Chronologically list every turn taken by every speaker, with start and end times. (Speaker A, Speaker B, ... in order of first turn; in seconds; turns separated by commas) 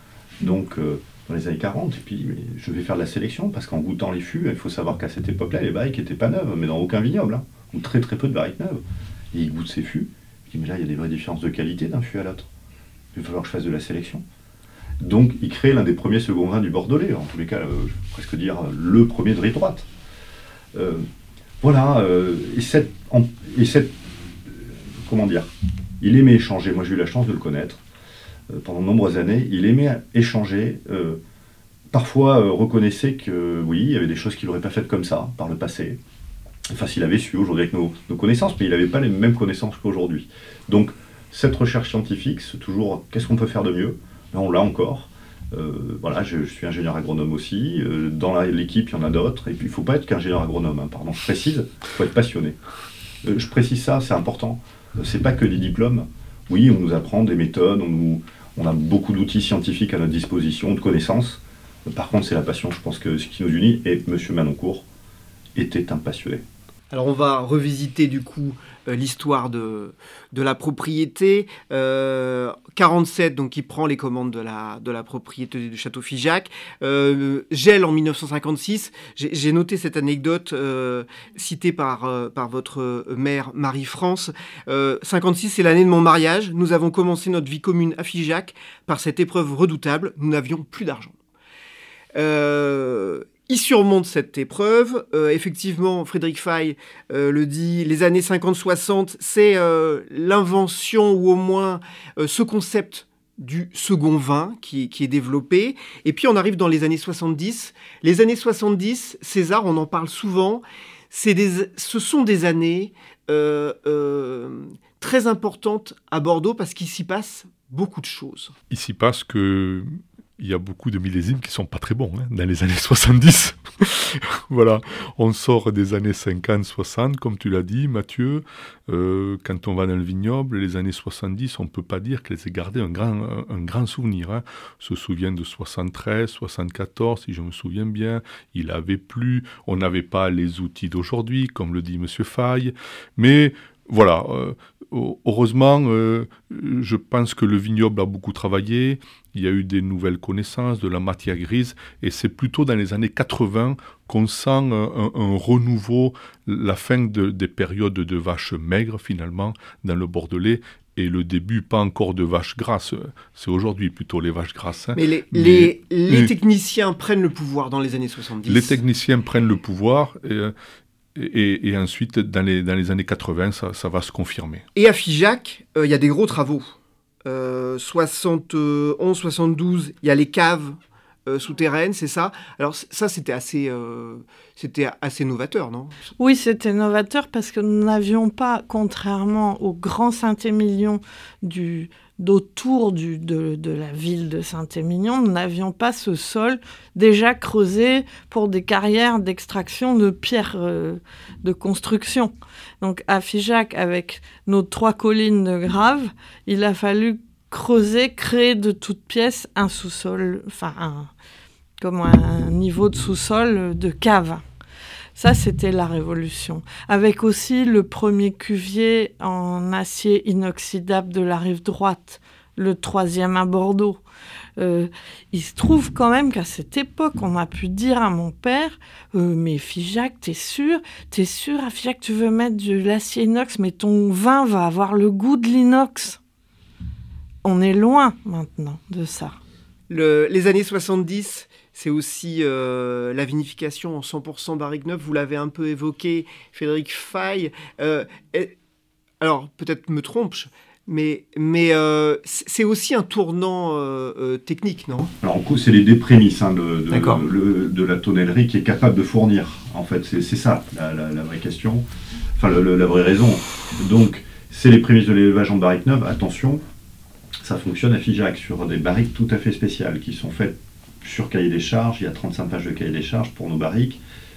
Speaker A: 0.4-8.8, Speaker A: 9.3-12.5, Speaker A: 13.1-14.2, Speaker A: 15.0-19.9, Speaker A: 20.7-21.1, Speaker A: 21.6-27.8, Speaker A: 28.5-31.2, Speaker A: 31.9-36.0, Speaker A: 36.7-52.6, Speaker A: 53.2-64.8, Speaker A: 65.5-66.4, Speaker B: 66.9-91.2, Speaker B: 92.2-118.5, Speaker C: 118.7-166.3, Speaker B: 164.9-168.8, Speaker C: 168.5-170.5, Speaker C: 171.2-174.6, Speaker B: 174.8-176.7, Speaker B: 177.2-186.0, Speaker D: 186.2-211.1, Speaker D: 211.8-214.4, Speaker D: 215.2-224.0, Speaker D: 224.6-236.2, Speaker D: 237.4-239.4, Speaker B: 239.9-248.5, Speaker B: 249.2-255.1, Speaker A: 255.2-261.8, Speaker B: 256.9-257.2, Speaker A: 262.4-266.6, Speaker A: 267.4-274.0